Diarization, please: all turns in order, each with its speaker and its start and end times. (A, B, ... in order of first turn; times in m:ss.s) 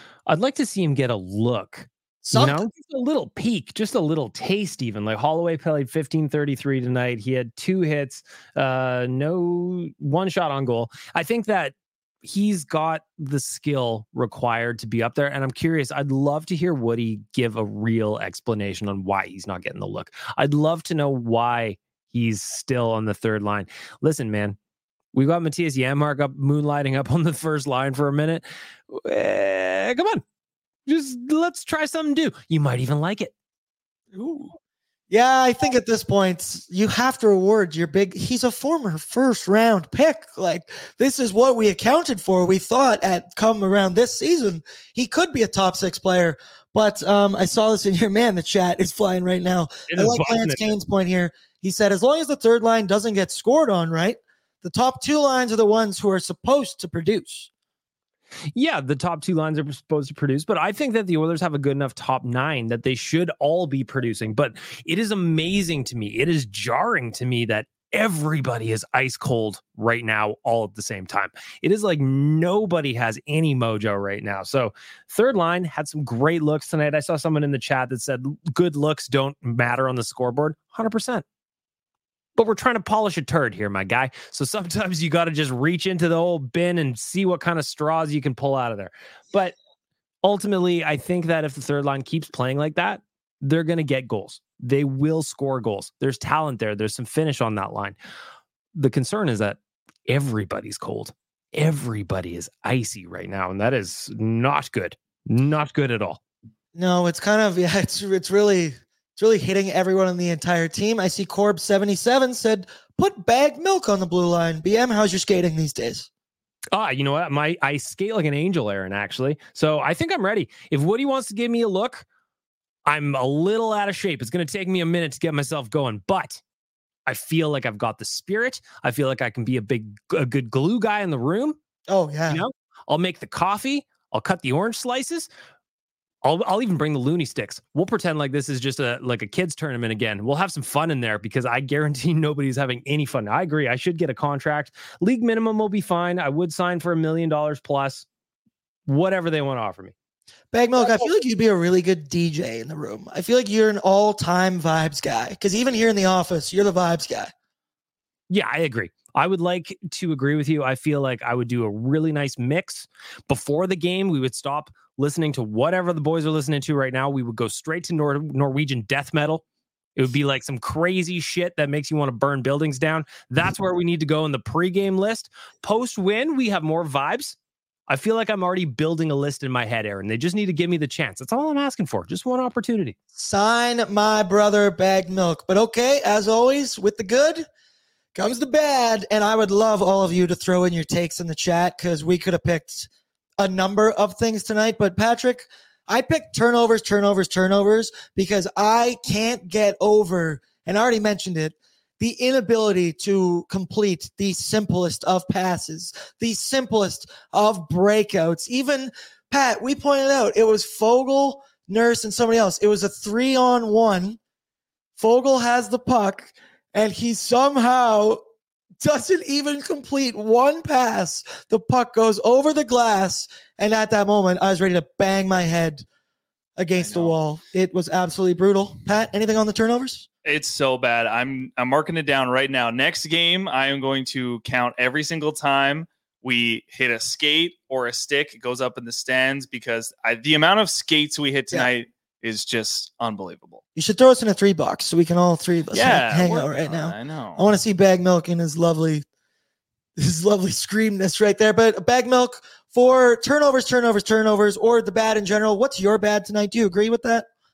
0:00.3-0:24.6 A
0:02.2-0:02.6 B
0:25.1-0:30.2 A
0:30.9-0:33.3 A
0:34.1-0:34.6 B
0:35.1-0:57.5 B
0:49.9-0:50.7 A
0:58.6-1:21.2 A
1:22.4-1:29.6 A
1:30.2-1:38.0 A
1:38.8-1:46.2 A
1:46.7-1:56.1 B
1:56.7-2:02.0 A
2:02.9-2:06.4 A
2:07.1-2:11.6 A
2:11.9-2:12.4 B
2:12.3-2:15.3 A
2:16.2-2:28.1 A
2:28.9-2:29.9 A
2:30.5-2:37.3 B
2:38.3-2:49.4 A
2:50.0-2:57.4 A
2:57.9-3:03.0 A
3:03.2-3:07.5 B
3:08.2-3:34.2 B
3:35.0-3:38.2 B
3:38.8-3:45.8 B
3:46.6-3:50.1 B
3:46.8-3:47.2 C
3:50.2-4:03.6 C
4:03.8-4:09.0 B
4:05.7-4:07.4 C
4:10.0-4:17.3 B